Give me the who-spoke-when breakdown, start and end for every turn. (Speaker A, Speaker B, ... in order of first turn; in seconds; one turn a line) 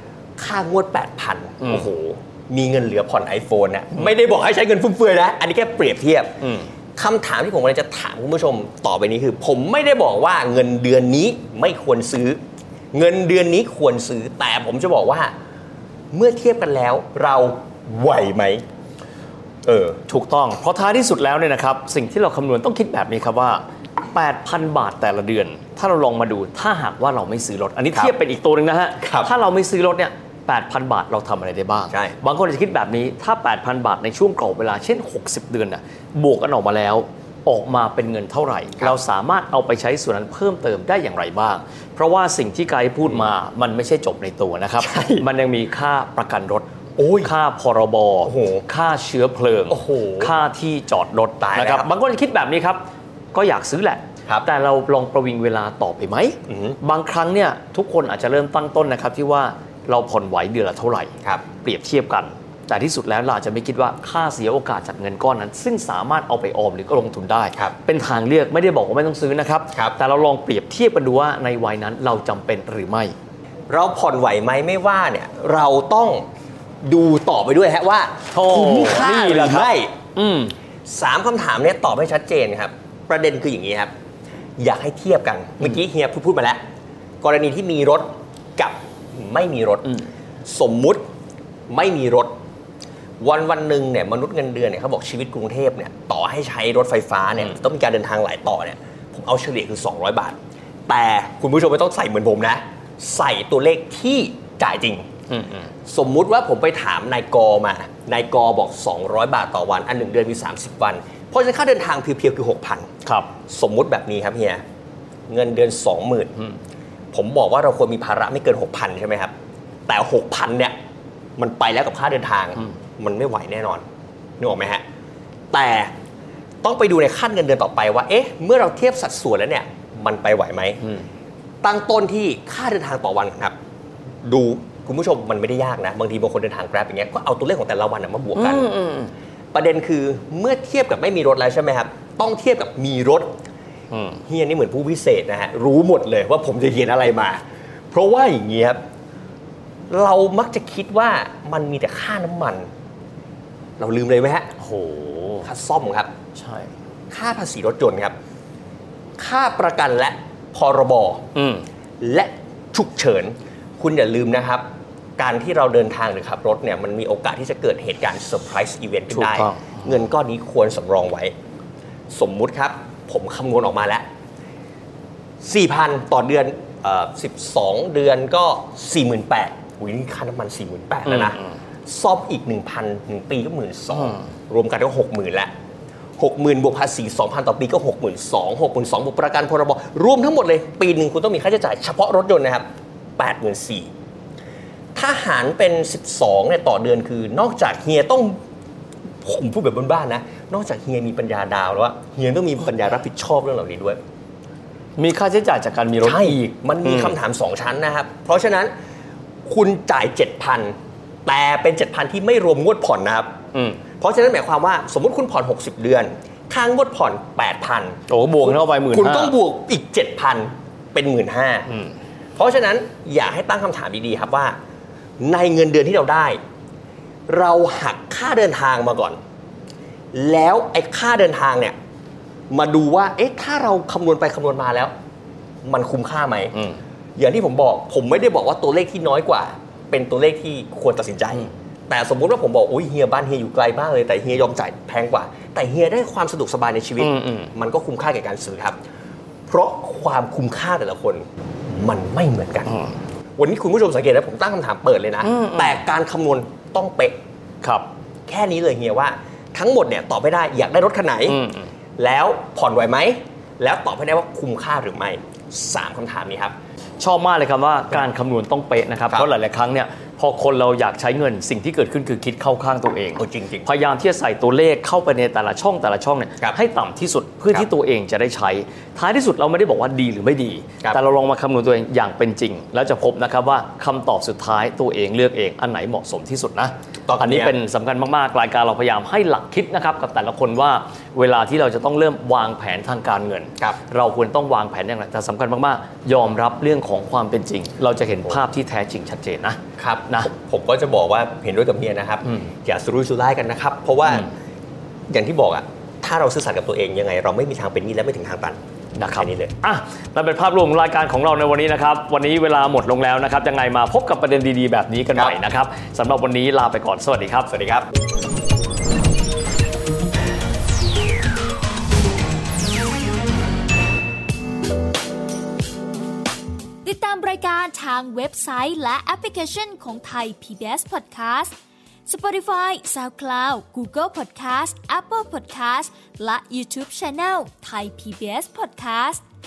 Speaker A: 0.4-6.3
Speaker B: 1.6-1.9
Speaker B: 6.4-6.7
Speaker A: 6.9-12.4
Speaker A: 12.9-15.3
Speaker A: 16.1-18.6
Speaker A: 19.6-20.0
Speaker B: 20.1-46.7
Speaker A: 29.0-29.3
Speaker A: 31.9-32.1
Speaker A: 44.8-45.3
Speaker A: 47.0-47.3
Speaker B: 47.2-73.2
Speaker A: 48.2-48.6
Speaker A: 49.7-50.4
Speaker A: 51.3-51.9
Speaker A: 56.5-56.8
Speaker A: 61.2-61.5
Speaker A: 73.7-76.2
Speaker A: 76.8-79.9
Speaker B: 78.3-80.5
Speaker A: 80.8-83.9
Speaker A: 84.6-86.6
Speaker A: 87.2-91.0
Speaker A: 91.7-92.3
Speaker A: 93.2-100.3
Speaker A: 100.9-105.1
Speaker B: 105.3-105.7
Speaker A: 105.8-112.9
Speaker B: 113.0-113.4
Speaker A: 113.5-114.6
Speaker A: 115.3-116.3
Speaker A: 117.1-119.3
Speaker A: 119.9-120.7
Speaker A: 121.4-123.8
Speaker A: 124.4-124.8
Speaker A: 125.5-125.9
Speaker A: 126.6-130.8
Speaker A: 131.6-133.5
Speaker A: 134.2-138.7
Speaker B: 138.3-139.1
Speaker A: 139.5-143.3
Speaker B: 143.9-144.2
Speaker A: 144.2-148.8
Speaker A: 149.9-152.7
Speaker A: 153.8-154.5
Speaker B: 154.6-155.5
Speaker A: 155.4-156.1
Speaker B: 156.3-156.7
Speaker A: 157.1-158.1
Speaker A: 159.2-161.2
Speaker B: 161.3-161.6
Speaker A: 162.0-164.6
Speaker A: 165.2-171.3
Speaker B: 169.1-169.9
Speaker A: 172.1-174.1
Speaker A: 175.4-185.5
Speaker B: 181.1-181.3
Speaker A: 186.2-192.7
Speaker A: 193.2-193.9
Speaker A: 194.9-198.4
Speaker A: 199.2-204.0
Speaker B: 205.0-207.2
Speaker A: 206.0-208.7
Speaker A: 209.4-210.7
Speaker A: 211.2-213.3
Speaker B: 213.5-213.9
Speaker A: 214.0-221.7
Speaker B: 218.1-219.4
Speaker B: 221.7-221.9
Speaker A: 222.3-224.6
Speaker A: 225.2-226.4
Speaker A: 227.3-229.2
Speaker A: 230.1-231.7
Speaker A: 232.5-234.9
Speaker A: 235.6-236.6
Speaker A: 237.2-248.8
Speaker B: 247.0-247.5
Speaker A: 249.5-252.7
Speaker A: 253.4-257.1
Speaker B: 255.2-255.8
Speaker B: 257.6-257.9
Speaker A: 258.3-261.4
Speaker B: 261.3-261.7
Speaker A: 262.0-266.5
Speaker B: 267.0-300.3
Speaker A: 273.1-273.7
Speaker A: 287.1-287.6
Speaker A: 299.8-304.3
Speaker A: 305.1-309.5
Speaker B: 308.9-317.5
Speaker A: 317.5-317.9
Speaker C: 326.8-331.5
Speaker C: 332.1-339.2